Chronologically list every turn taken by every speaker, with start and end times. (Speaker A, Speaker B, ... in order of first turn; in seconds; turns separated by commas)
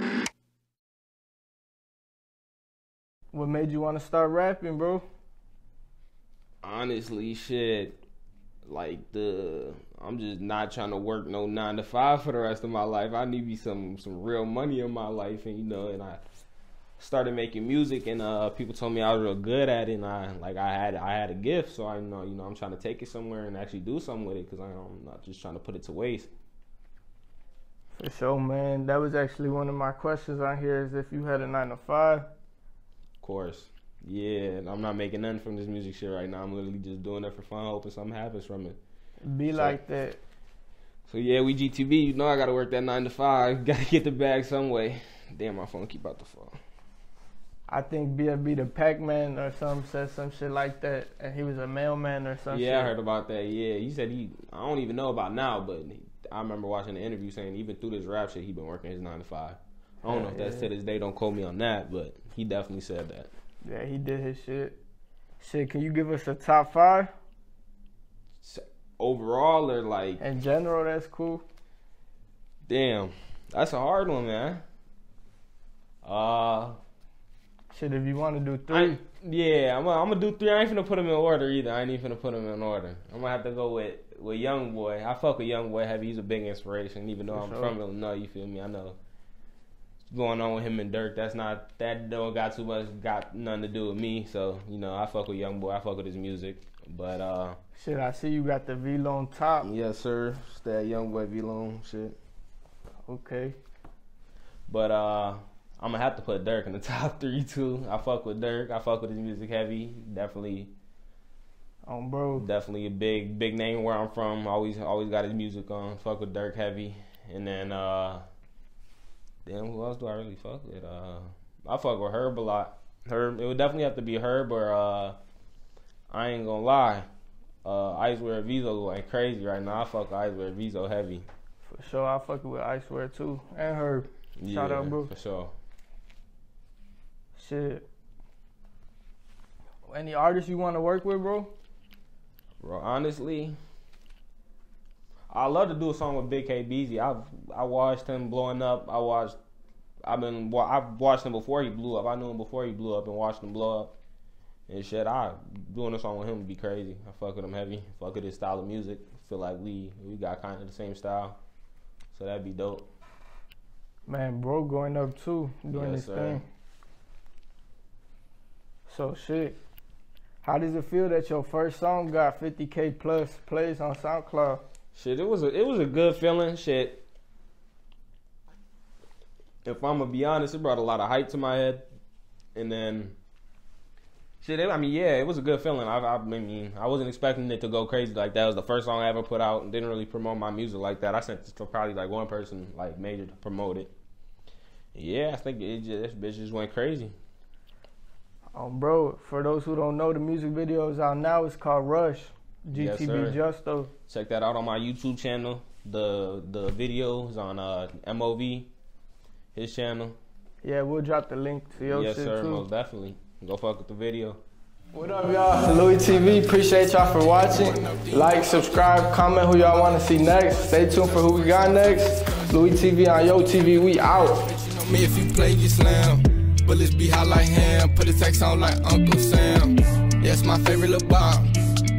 Speaker A: 3.3-5.0, Speaker B: 6.6-8.0, Speaker B: 8.7-16.2, Speaker B: 17.0-26.3, Speaker A: 27.9-32.3, Speaker B: 33.2-38.8, Speaker A: 39.2-40.2, Speaker B: 39.5-39.8, Speaker B: 41.1-46.6, Speaker A: 47.7-52.9, Speaker B: 52.5-63.3, Speaker A: 60.1-60.7, Speaker A: 63.6-64.8, Speaker A: 65.4-67.1, Speaker B: 68.4-70.2, Speaker A: 70.2-71.5, Speaker B: 72.7-74.6, Speaker B: 76.0-76.8, Speaker A: 77.7-79.0, Speaker B: 78.7-89.0, Speaker A: 87.3-87.8, Speaker B: 90.1-97.6, Speaker A: 97.8-99.7, Speaker B: 99.6-102.2, Speaker A: 103.1-103.6, Speaker B: 104.7-110.7, Speaker A: 111.9-112.5, Speaker B: 112.4-118.2, Speaker B: 119.5-125.2, Speaker B: 126.1-127.1, Speaker B: 127.6-131.3, Speaker A: 131.6-135.1, Speaker B: 134.4-135.5, Speaker A: 137.4-137.9, Speaker A: 139.9-141.5, Speaker B: 142.6-143.6, Speaker B: 145.3-149.4, Speaker B: 150.0-153.9, Speaker B: 154.7-161.4, Speaker B: 162.1-162.9, Speaker A: 164.1-166.5, Speaker B: 165.7-166.4, Speaker A: 168.9-169.6, Speaker A: 170.4-174.6, Speaker B: 174.9-177.1, Speaker B: 179.7-181.9, Speaker B: 182.6-183.2, Speaker B: 184.4-193.9, Speaker B: 194.9-197.2, Speaker A: 198.6-203.9, Speaker B: 202.7-203.4, Speaker B: 204.1-208.7, Speaker B: 209.5-210.2, Speaker A: 210.6-212.7, Speaker B: 211.8-214.4, Speaker A: 214.9-224.5, Speaker C: 215.8-222.6, Speaker C: 224.4-231.6